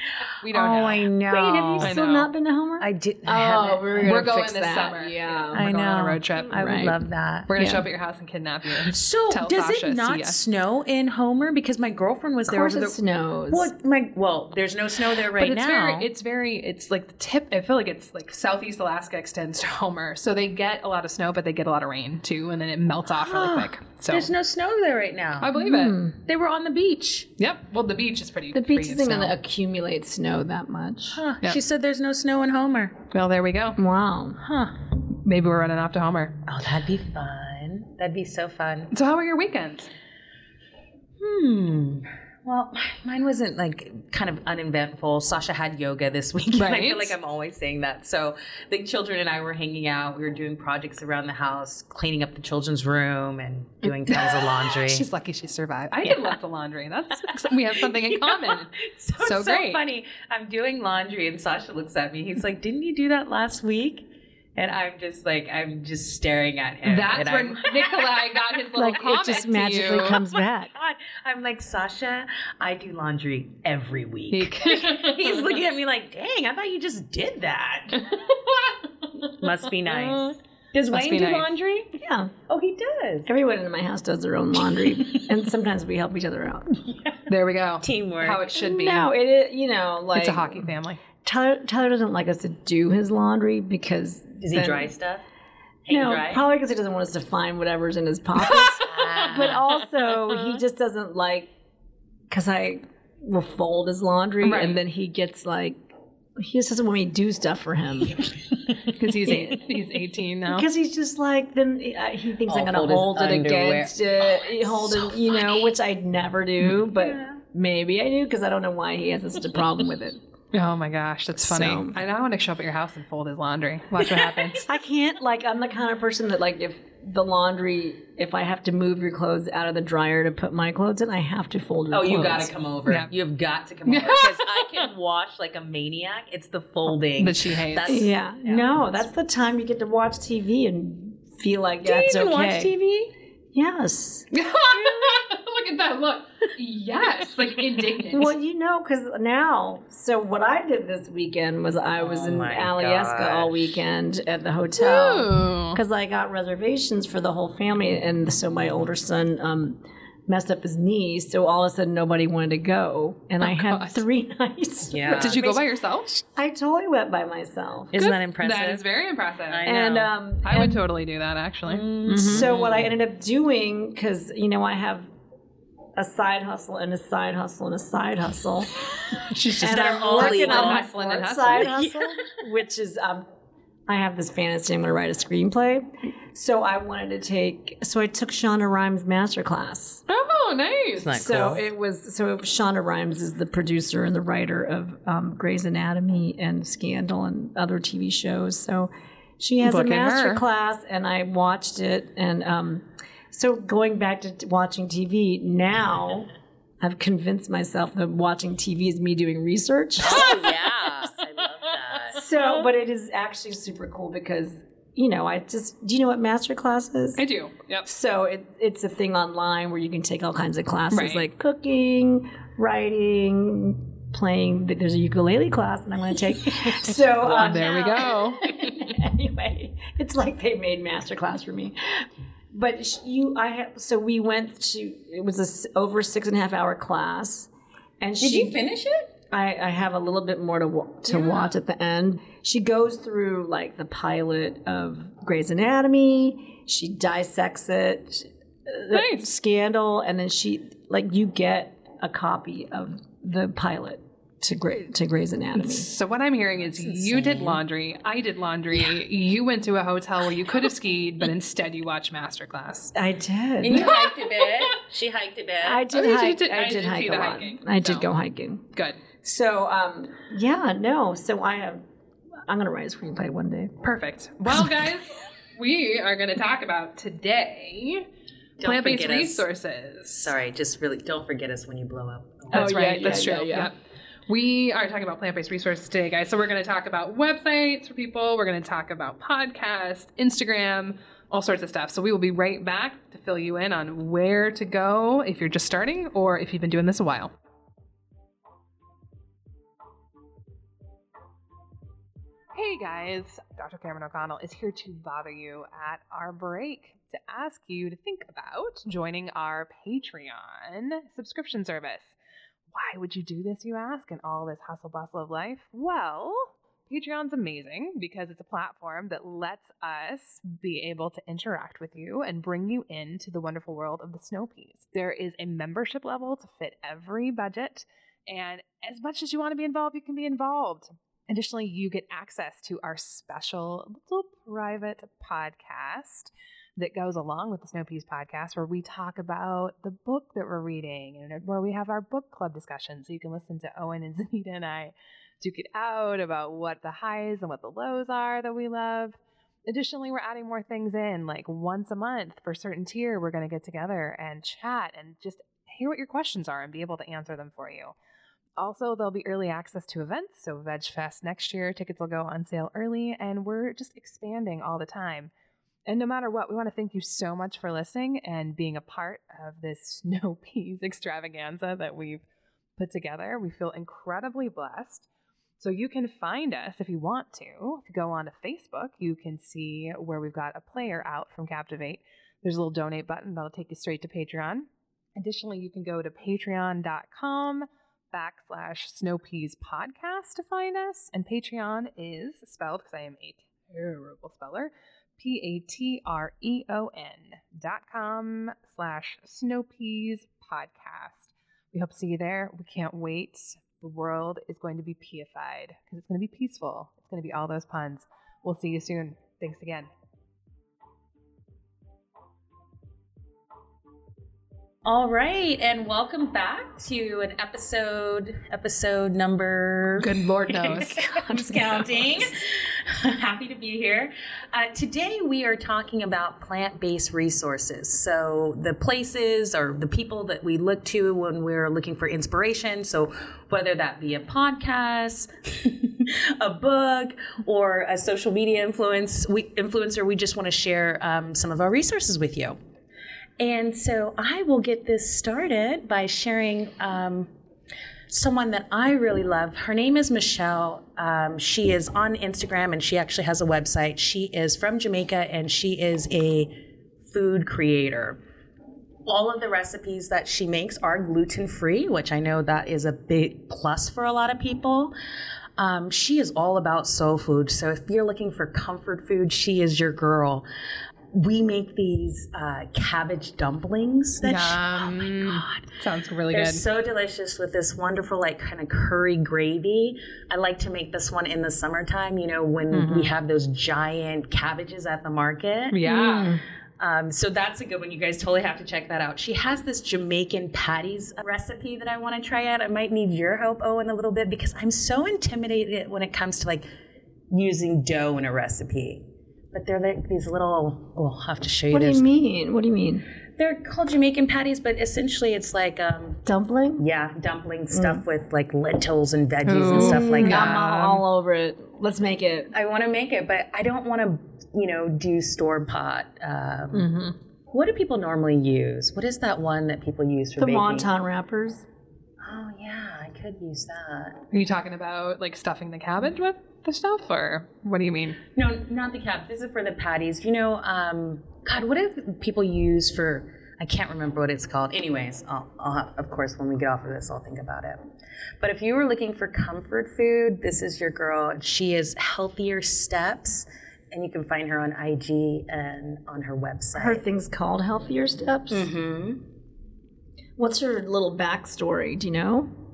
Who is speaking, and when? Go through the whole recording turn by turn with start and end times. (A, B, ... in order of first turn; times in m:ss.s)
0:00.4-0:01.1 A
0:00.5-0:02.0 B
0:01.3-0:05.6 C
0:01.8-0:02.3 A
0:02.8-0:04.3 B
0:04.0-0:06.6 A
0:05.5-0:07.5 B
0:06.5-0:07.0 C
0:07.5-0:10.4 A
0:07.6-0:07.8 C
0:08.8-0:13.0 B
0:12.5-0:13.7 C
0:13.5-0:16.1 B
0:15.4-0:24.3 A
0:23.1-0:25.5 B
0:25.4-0:26.0 A
0:25.5-0:26.2 C
0:26.2-0:27.3 B
0:27.4-0:29.3 A
0:28.5-0:31.2 C
0:31.1-0:33.0 B
0:33.1-0:33.8 A
0:33.8-0:34.4 C
0:34.4-0:36.4 A
0:36.4-0:38.9 B
0:38.9-0:39.9 A
0:41.2-0:55.0 B
0:46.5-0:47.2 A
0:54.0-0:59.8 A
0:56.0-0:56.3 B
0:57.3-1:04.0 B
1:04.6-1:08.2 B
1:06.8-1:10.2 A
1:08.7-1:10.7 C
1:09.7-1:18.1 B
1:14.3-1:15.6 A
1:17.9-1:20.3 A
1:19.2-1:22.0 B
1:20.9-1:21.5 A
1:22.0-1:22.3 C
1:22.5-1:23.3 B
1:23.2-1:26.8 C
1:24.8-1:25.3 B
1:26.8-1:27.2 B
1:27.3-1:29.1 A
1:27.8-1:28.5 B
1:28.5-1:30.7 C
1:30.1-1:31.0 A
1:31.2-1:34.9 C
1:34.4-1:35.2 B
1:35.9-1:36.4 B
1:35.9-1:41.5 C
1:38.5-1:39.5 A
1:38.6-1:39.6 B
1:42.3-1:45.8 C
1:44.4-1:44.8 A
1:46.4-1:48.2 C
1:48.9-1:50.7 A
1:49.2-1:49.6 C
1:50.5-2:00.2 C
1:52.5-1:55.7 B
1:57.0-1:57.2 B
2:00.5-2:04.6 A
2:01.4-2:02.0 C
2:04.6-2:12.5 C
2:11.9-2:18.8 B
2:13.8-2:14.8 A
2:17.2-2:18.0 A
2:17.9-2:22.7 C
2:21.8-2:23.1 B
2:23.5-2:24.3 C
2:24.3-2:28.3 A
2:24.8-2:25.2 C
2:27.8-2:45.6 C
2:32.0-2:33.7 B
2:34.8-2:35.8 A
2:43.4-2:44.0 A
2:44.9-2:45.5 B
2:45.1-2:46.2 A
2:46.3-2:47.9 C
2:47.9-2:48.8 B
2:48.0-2:49.7 A
2:49.5-2:50.1 B
2:49.6-2:50.8 C
2:50.4-2:51.9 A
2:51.6-2:52.9 B
2:52.1-2:55.1 C
2:56.0-2:58.8 C
2:59.3-3:01.7 A
2:59.5-3:03.3 C
2:59.6-3:00.8 B
3:01.5-3:02.4 B
3:03.9-3:10.0 C
3:10.1-3:11.2 A
3:11.0-3:11.6 B
3:11.1-3:26.3 C
3:19.6-3:20.4 A
3:26.8-3:30.5 C
3:30.0-3:32.2 B
3:30.1-3:30.4 A
3:32.1-3:37.2 C
3:37.2-3:37.9 A
3:37.8-3:58.6 C
3:40.9-3:41.2 A
3:47.2-3:48.5 A
3:58.2-3:59.1 B
3:59.3-4:15.9 C
4:01.1-4:01.5 A
4:08.9-4:09.3 A
4:15.5-4:22.9 A
4:16.6-4:17.6 B
4:22.9-4:24.0 C
4:23.6-4:25.8 B
4:23.7-4:24.8 A
4:25.6-4:28.7 C
4:25.9-4:28.1 A
4:28.7-4:29.0 A
4:29.2-4:31.8 C
4:32.4-4:33.7 C
4:33.8-4:38.0 A
4:38.6-4:39.4 B
4:38.6-4:40.3 A
4:40.2-4:43.3 B
4:42.5-4:43.7 C
4:42.5-4:43.7 A
4:44.3-4:57.3 A
5:02.5-5:12.2 A
5:12.7-5:57.9 A
5:58.6-6:05.3 A
6:05.9-6:12.2 A
6:12.8-6:15.1 A
6:15.6-6:49.9 A
6:54.8-7:22.6 B
7:00.0-7:01.0 A
7:00.9-7:02.2 C
7:23.4-7:27.3 B
7:28.1-7:36.6 B
7:37.1-7:38.2 B
7:39.0-7:44.9 B
7:45.6-7:50.4 B
7:51.1-7:55.7 B
7:54.2-7:56.6 A
7:56.3-8:05.8 B
8:02.8-8:03.1 C
8:05.7-8:06.4 A
8:05.8-8:06.4 C
8:06.8-8:16.6 B
8:17.3-8:22.1 B
8:21.7-8:23.0 C
8:23.4-8:26.2 B
8:26.2-8:26.8 C
8:26.8-8:30.5 B
8:27.7-8:28.0 C
8:29.4-8:31.0 A
8:29.7-8:32.5 C
8:32.5-8:36.9 B
8:36.7-8:37.2 C
8:37.5-8:40.9 B
8:40.4-8:41.6 C
8:42.2-8:44.2 B
8:44.3-8:48.2 A
8:48.3-8:57.8 B
8:58.4-9:07.0 B
9:06.7-9:08.7 C
9:08.5-9:09.2 B
9:10.4-9:12.5 C